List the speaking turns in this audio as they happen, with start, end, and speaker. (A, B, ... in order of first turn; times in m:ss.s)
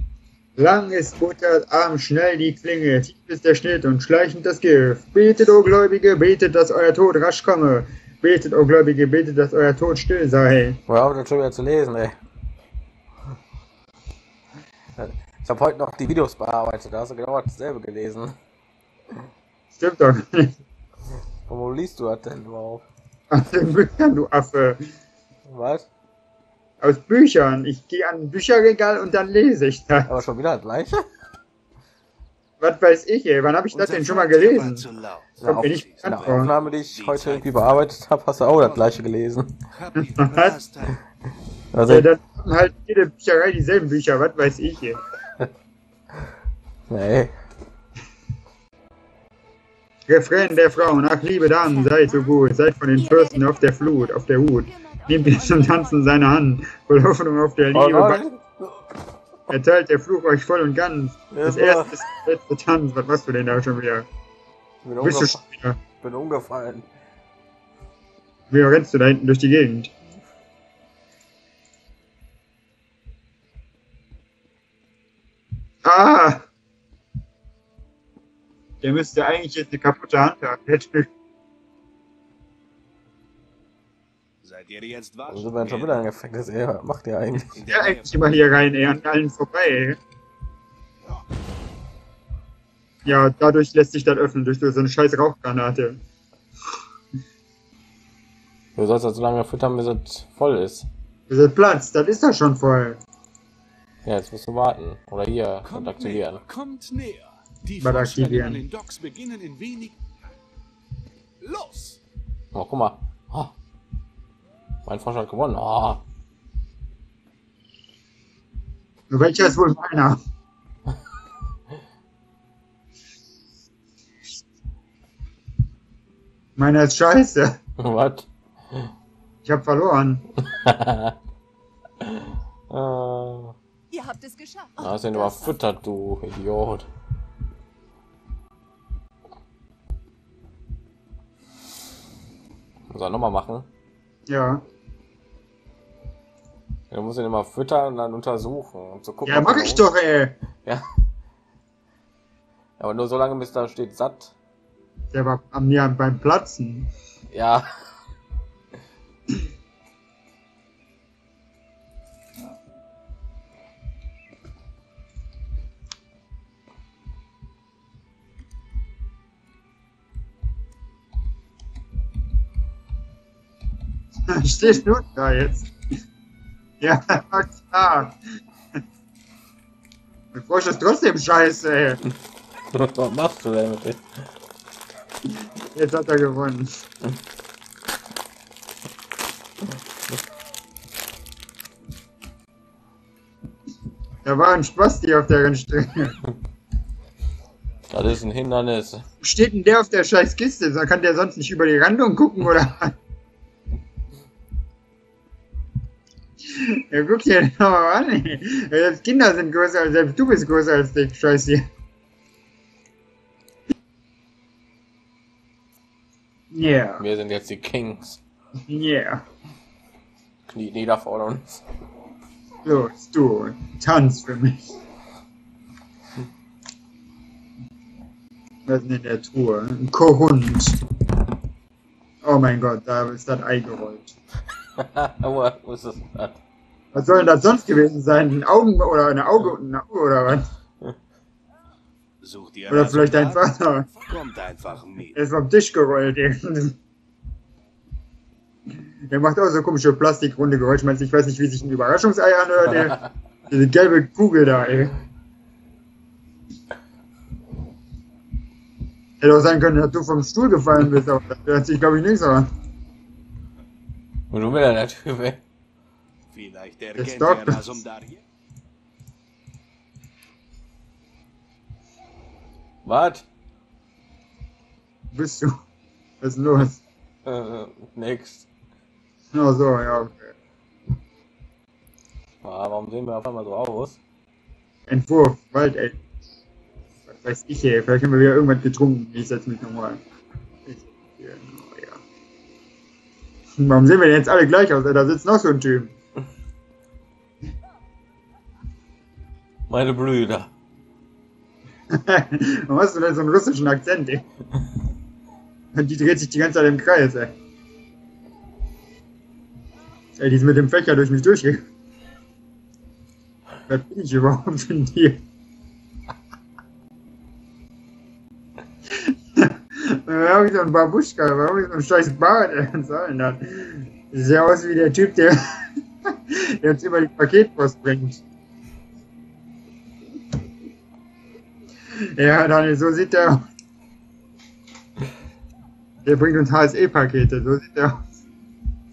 0:00.6-0:10.8 A
0:10.9-0:12.2 B
0:15.0-0:18.4 B
0:19.8-0:20.5 A
0:21.5-0:22.8 B
0:23.3-0:24.8 A
0:25.5-0:25.9 B
0:26.8-0:30.1 A
0:30.1-0:31.0 B
0:32.6-0:34.9 A
0:33.7-0:37.7 C
0:35.4-0:39.5 B
0:35.4-0:36.5 A
0:38.5-0:38.9 C
0:39.7-0:41.0 C
0:40.0-0:40.6 A
0:41.7-0:42.1 B
0:41.9-0:45.0 A
0:46.9-0:47.3 B
0:50.1-0:58.2 A
0:51.7-0:52.3 D
0:53.0-0:56.1 D
0:57.7-0:59.5 B
0:59.5-1:04.1 A
1:01.3-1:02.0 B
1:04.8-1:05.4 B
1:05.0-1:05.8 A
1:06.0-1:06.9 B
1:08.5-1:09.9 A
1:15.8-1:16.4 A
1:18.8-1:21.1 A
1:24.4-1:26.0 C
1:25.3-1:27.6 B
1:27.5-1:28.5 C
1:27.7-1:30.0 A
1:33.0-1:36.0 A
1:38.8-1:40.9 B
1:41.3-1:43.0 A
1:44.0-1:46.4 B
1:45.6-1:50.0 C
1:47.8-1:48.6 A
1:51.4-1:52.0 C
1:52.5-1:53.5 B
1:54.9-1:56.0 B
1:59.1-2:00.2 A
2:06.6-2:07.6 A
2:07.8-2:08.9 B
2:09.4-2:10.2 A
2:10.4-2:11.2 B
2:12.0-2:13.6 B
2:13.9-2:15.5 D
2:14.8-2:16.9 B
2:22.9-2:23.7 B
2:24.3-2:24.6 A
2:26.9-2:29.8 B
2:29.2-2:30.4 A
2:32.8-2:34.4 B
2:35.1-2:36.9 A
2:37.3-2:37.7 B
2:54.3-2:55.7 A
2:56.8-2:58.2 A
3:00.3-3:02.0 A
3:02.7-3:04.0 B
3:05.7-3:06.7 A
3:14.2-3:16.2 A
3:17.9-3:19.0 B
3:19.2-3:22.9 A
3:26.5-3:31.6 A
3:36.5-3:37.0 A
3:37.0-3:38.2 B
3:38.7-3:39.2 A
3:40.5-3:41.6 B
3:42.6-3:44.6 A
3:48.7-3:50.8 A
3:52.2-3:54.1 A
3:54.8-3:56.4 B
3:56.9-4:00.4 A
4:02.2-4:03.4 C
4:02.7-4:03.9 A
4:03.9-4:05.2 C
4:05.2-4:06.8 A
4:09.1-4:15.0 A
4:19.2-4:22.5 A
4:24.3-4:25.4 B
4:26.3-4:28.2 C
4:27.0-4:27.7 A
4:32.8-4:33.3 B
4:35.1-4:35.5 A
4:36.2-4:36.8 A
4:37.3-4:38.5 B
4:39.3-4:40.3 A
4:42.4-4:44.0 B
4:44.9-4:46.0 A
4:47.1-4:50.0 A
4:50.7-4:52.0 A
4:53.6-4:55.9 A
4:59.7-5:00.5 B
5:01.9-5:04.2 A
5:05.7-5:07.3 A
5:10.2-5:11.6 A
5:13.7-5:15.2 A
5:19.4-5:25.4 A
5:26.3-5:28.2 A
5:32.2-5:33.4 A
5:36.0-5:38.0 A